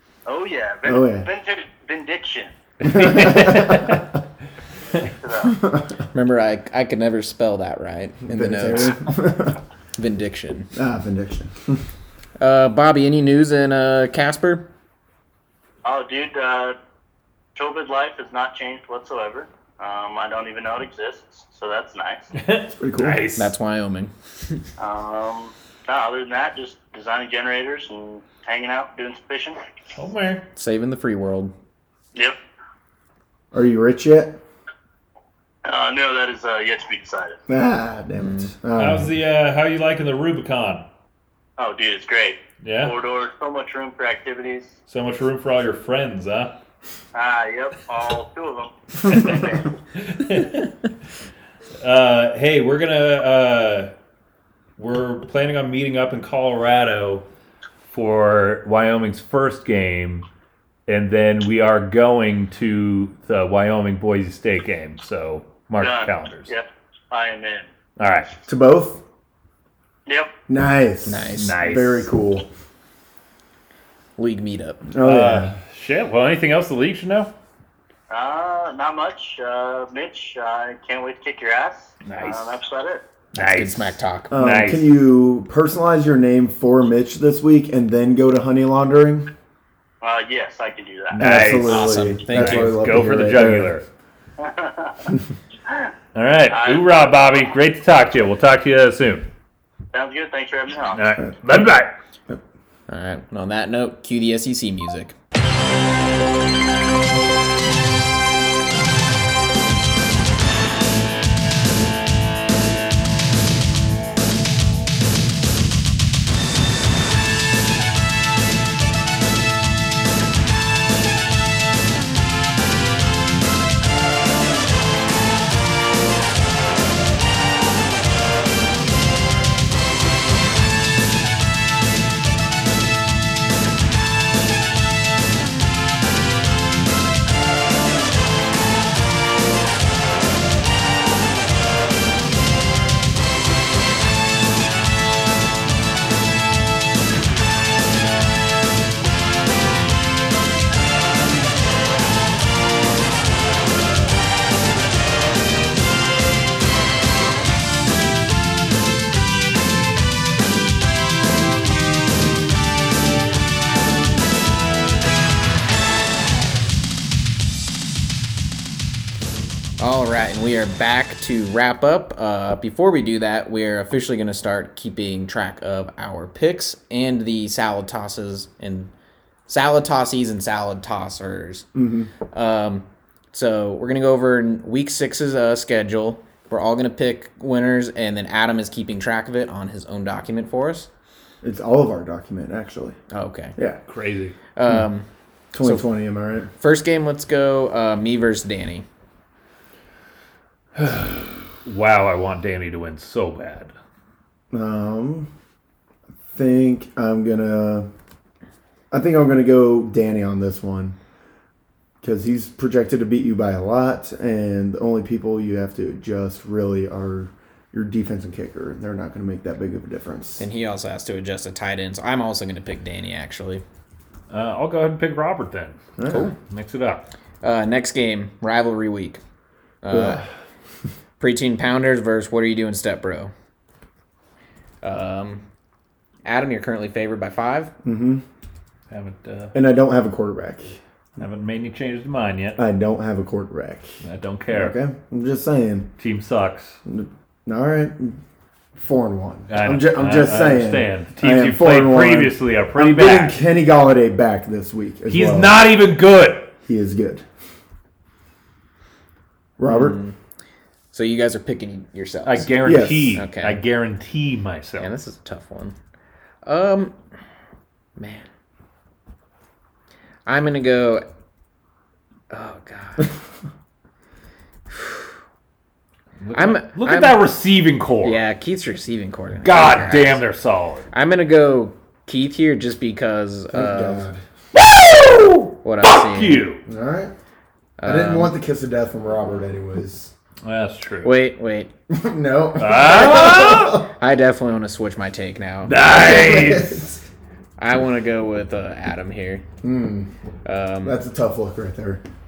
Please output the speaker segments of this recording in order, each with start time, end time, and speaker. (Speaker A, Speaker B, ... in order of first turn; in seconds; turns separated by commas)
Speaker A: 0.2-2.5, Speaker B: 0.8-1.3, Speaker C: 2.8-4.1, Speaker B: 2.9-4.0, Speaker A: 5.0-5.5, Speaker B: 5.6-5.9, Speaker D: 6.1-9.2, Speaker B: 8.2-9.6, Speaker D: 9.9-10.7, Speaker B: 10.7-11.8, Speaker D: 12.4-14.7, Speaker A: 15.8-16.8, Speaker A: 17.5-22.3, Speaker C: 22.4-23.5, Speaker B: 22.8-23.3, Speaker D: 23.4-24.1, Speaker A: 24.8-29.6, Speaker C: 29.9-30.4, Speaker D: 30.5-31.5, Speaker B: 33.5-34.4, Speaker A: 35.6-37.4, Speaker B: 37.5-39.1, Speaker D: 38.2-38.5, Speaker C: 38.7-40.9, Speaker A: 41.6-44.8, Speaker C: 42.6-43.0, Speaker C: 44.9-46.6, Speaker A: 47.1-49.6, Speaker C: 49.1-50.7, Speaker C: 51.8-53.9, Speaker C: 54.8-57.2, Speaker C: 57.8-60.3, Speaker C: 60.9-66.5, Speaker A: 65.8-67.7, Speaker C: 68.0-68.3, Speaker B: 68.5-69.0, Speaker A: 70.0-70.3, Speaker B: 70.5-72.5, Speaker D: 71.0-71.5, Speaker C: 71.3-72.1, Speaker D: 74.2-74.8, Speaker B: 74.9-75.5, Speaker C: 75.0-77.3, Speaker A: 78.1-83.0, Speaker C: 82.0-82.5, Speaker D: 83.3-84.3, Speaker C: 83.3-84.9, Speaker B: 84.3-89.3, Speaker A: 90.0-91.2, Speaker C: 91.1-93.8, Speaker B: 91.2-93.7, Speaker D: 91.6-92.8, Speaker A: 94.4-95.1, Speaker C: 96.1-99.3, Speaker A: 96.5-97.4, Speaker A: 99.9-101.0, Speaker C: 100.9-101.9, Speaker D: 102.9-105.1, Speaker D: 169.8-178.9, Speaker D: 179.5-181.7, Speaker B: 181.7-182.1, Speaker D: 182.3-190.9, Speaker B: 191.4-193.0, Speaker D: 193.1-193.6, Speaker C: 193.9-194.3, Speaker D: 194.6-195.1, Speaker B: 195.5-196.5, Speaker D: 195.6-195.9, Speaker D: 196.6-198.8, Speaker C: 200.7-203.7, Speaker B: 204.5-205.3, Speaker B: 206.3-207.9, Speaker B: 208.9-210.9, Speaker B: 212.0-220.4, Speaker D: 220.4-223.6, Speaker C: 224.3-225.8, Speaker B: 226.0-226.3, Speaker D: 226.1-226.3, Speaker C: 226.4-227.1, Speaker D: 227.4-229.2, Speaker D: 229.8-230.2, Speaker B: 229.9-230.3, Speaker D: 231.2-233.3, Speaker D: 234.8-235.4, Speaker D: 236.2-237.7, Speaker B: 237.8-238.2, Speaker C: 238.9-239.5, Speaker B: 239.5-240.8, Speaker C: 241.2-242.6, Speaker B: 242.6-243.9, Speaker C: 244.0-244.8, Speaker B: 244.5-245.9, Speaker C: 246.0-246.8, Speaker B: 246.8-248.2, Speaker B: 248.7-255.6, Speaker C: 249.5-253.4, Speaker C: 255.1-256.5, Speaker B: 256.6-257.3, Speaker B: 259.6-260.0, Speaker D: 259.7-260.1, Speaker D: 260.9-262.5, Speaker C: 262.2-264.9, Speaker B: 262.6-263.2, Speaker D: 263.1-263.6, Speaker D: 264.8-265.8, Speaker D: 266.4-267.0, Speaker D: 268.0-268.2, Speaker D: 270.2-271.0, Speaker D: 272.3-273.1, Speaker D: 274.7-275.0, Speaker C: 276.2-278.2, Speaker D: 276.3-277.2, Speaker D: 278.0-280.3, Speaker C: 279.4-280.9, Speaker D: 280.9-284.1, Speaker B: 283.5-284.2, Speaker C: 284.5-286.6, Speaker D: 285.6-286.4, Speaker B: 286.6-287.1, Speaker D: 287.8-288.3, Speaker B: 287.8-290.1, Speaker C: 290.4-291.1, Speaker D: 291.0-291.7, Speaker B: 291.9-293.8, Speaker C: 292.6-293.8, Speaker D: 294.0-295.8, Speaker C: 295.6-296.8, Speaker B: 295.9-297.0, Speaker D: 297.6-299.4, Speaker B: 299.6-300.1, Speaker D: 300.4-301.0, Speaker B: 300.8-302.0